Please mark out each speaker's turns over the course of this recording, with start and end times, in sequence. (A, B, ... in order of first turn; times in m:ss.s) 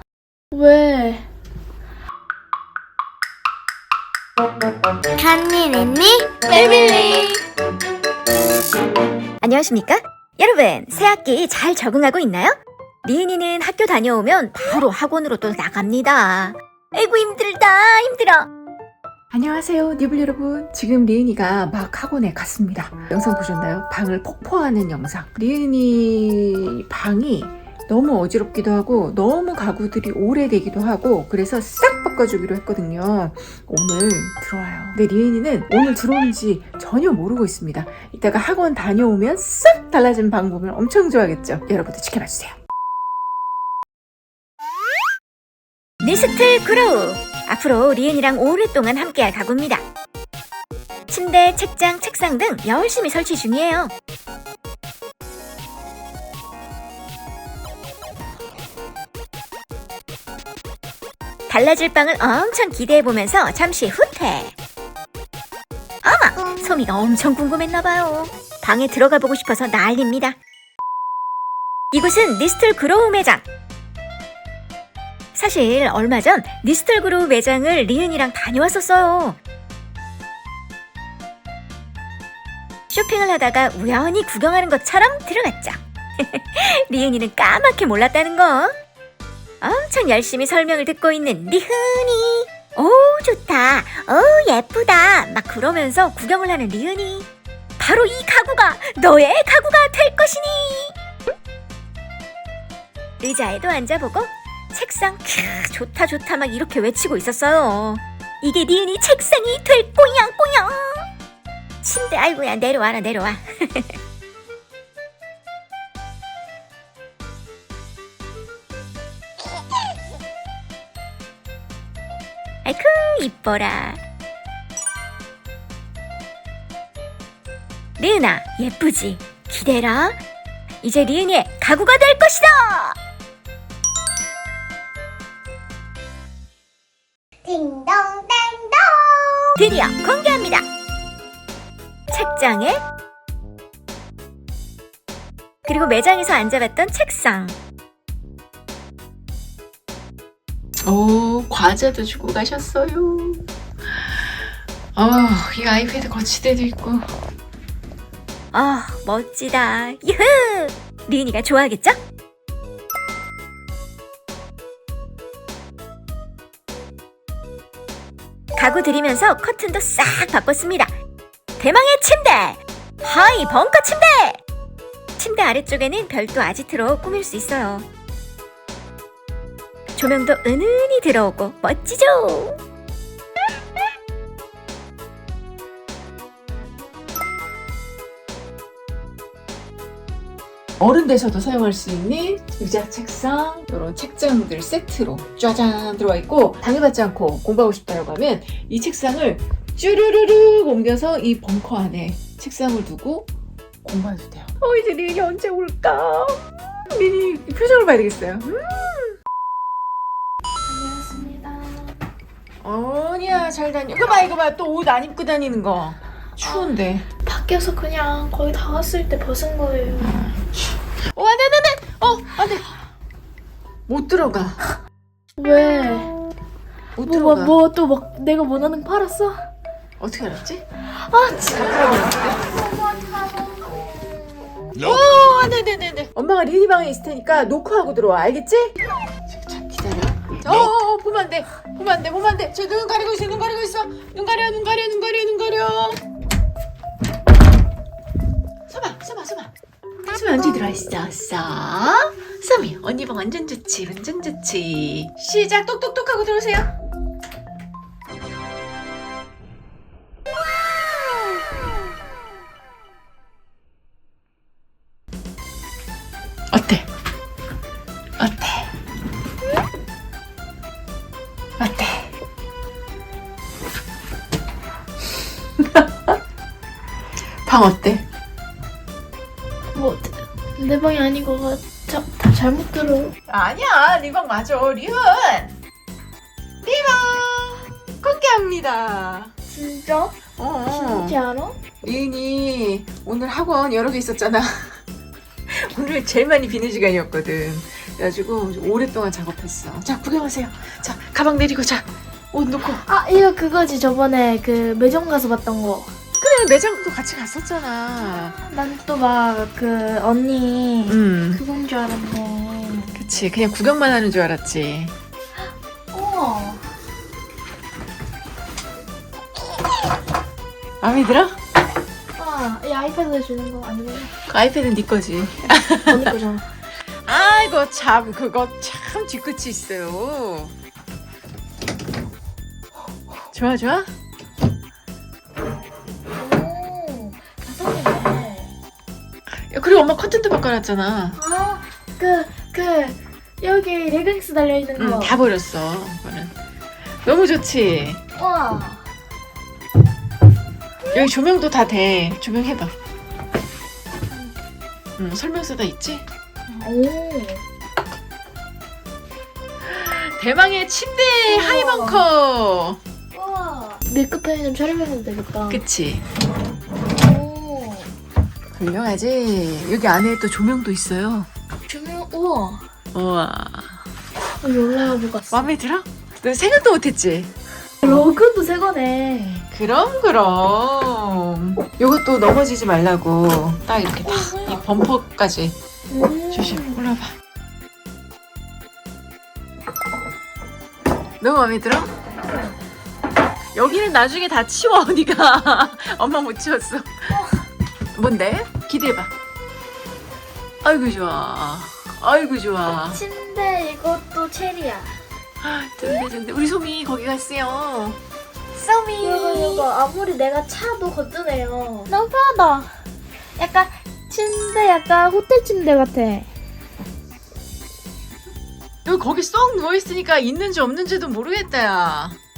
0:00.5-0:01.3 A
0:05.2-0:06.3 B
0:06.5-0:07.3 A
0:06.5-0:07.4 C
0:09.4-0:18.5 D
0:19.3-0:42.6 C
0:46.0-0:49.8 D
0:51.1-0:53.9 D
1:01.5-1:04.6 D
1:06.0-1:10.4 D
1:11.9-1:13.4 D
1:15.4-1:19.4 D
1:22.9-1:28.8 D
1:29.6-1:37.3 D
1:37.8-1:41.0 D
1:43.2-1:51.1 D
1:51.8-1:54.0 D
2:02.6-2:04.0 D
2:08.0-2:10.2 D
2:10.8-2:13.0 D
2:17.4-2:19.5 B
2:19.6-2:20.6 D
2:22.1-2:22.8 D
2:25.7-2:27.6 D
2:30.8-2:33.4 C
2:35.0-2:37.1 C
2:38.5-2:42.0 D
2:48.6-2:50.9 D
2:51.6-2:54.4 D
2:55.2-2:57.9 D
3:00.0-3:02.6 D
3:10.8-3:23.3 C
3:23.8-3:29.1 C
3:30.7-3:32.0 A
3:32.6-3:37.1 C
3:37.2-3:40.1 A
3:40.0-3:40.4 C
3:41.1-3:42.7 C
3:43.9-3:44.6 C
3:45.4-3:46.2 A
3:47.0-3:47.6 C
3:47.0-3:49.4 A
3:50.0-3:50.6 C
3:50.8-3:54.9 A
3:51.4-3:52.4 C
3:54.8-3:58.8 C
3:59.3-4:06.0 C
4:08.7-4:09.5 C
4:10.1-4:16.7 C
4:26.5-4:26.8 C
4:28.2-4:28.7 C
4:31.6-4:32.1 C
4:35.6-4:35.9 C
4:37.5-4:38.0 C
4:39.8-4:43.2 A
4:43.3-4:45.6 C
4:46.6-4:49.3 C
4:49.5-4:50.2 A
4:50.4-4:51.2 C
4:50.7-4:51.6 A
4:51.8-4:54.8 C
4:55.5-5:02.8 C
5:02.8-5:05.9 A
5:06.2-5:08.4 C
5:08.2-5:13.1 A
5:10.9-5:11.4 C
5:13.0-5:14.9 C
5:15.9-5:16.6 A
5:20.8-5:21.4 C
5:22.2-5:24.1 A
5:24.3-5:26.1 C
5:25.8-5:26.4 A
5:27.1-5:30.5 C
5:33.3-5:33.9 C
5:36.2-5:38.5 A
5:39.5-5:41.2 C
5:41.2-5:45.2 A
5:44.8-5:46.4 C
5:47.0-5:48.0 C
5:48.2-5:48.8 A
5:50.9-5:52.7 C
5:55.0-5:56.0 C
5:56.5-5:57.4 A
5:59.6-6:02.8 C
6:01.3-6:02.1 A
6:03.1-6:05.6 A
6:05.5-6:06.0 C
6:07.0-6:07.9 A
6:08.6-6:11.3 C
6:11.7-6:12.6 A
6:12.9-6:13.8 C
6:14.4-6:15.5 A
6:15.3-6:17.3 C
6:17.8-6:19.4 A
6:19.5-6:25.6 C
6:24.0-6:24.6 A
6:25.9-6:26.8 A
6:26.3-6:27.1 C
6:31.2-6:31.9 C
6:33.5-6:37.1 C
6:38.0-6:39.1 C
6:40.6-6:43.0 C
6:42.9-6:45.0 A
6:45.4-6:48.0 C
6:48.6-6:49.6 C
6:49.0-6:52.8 A
6:53.4-6:56.3 A
6:58.8-7:02.2 C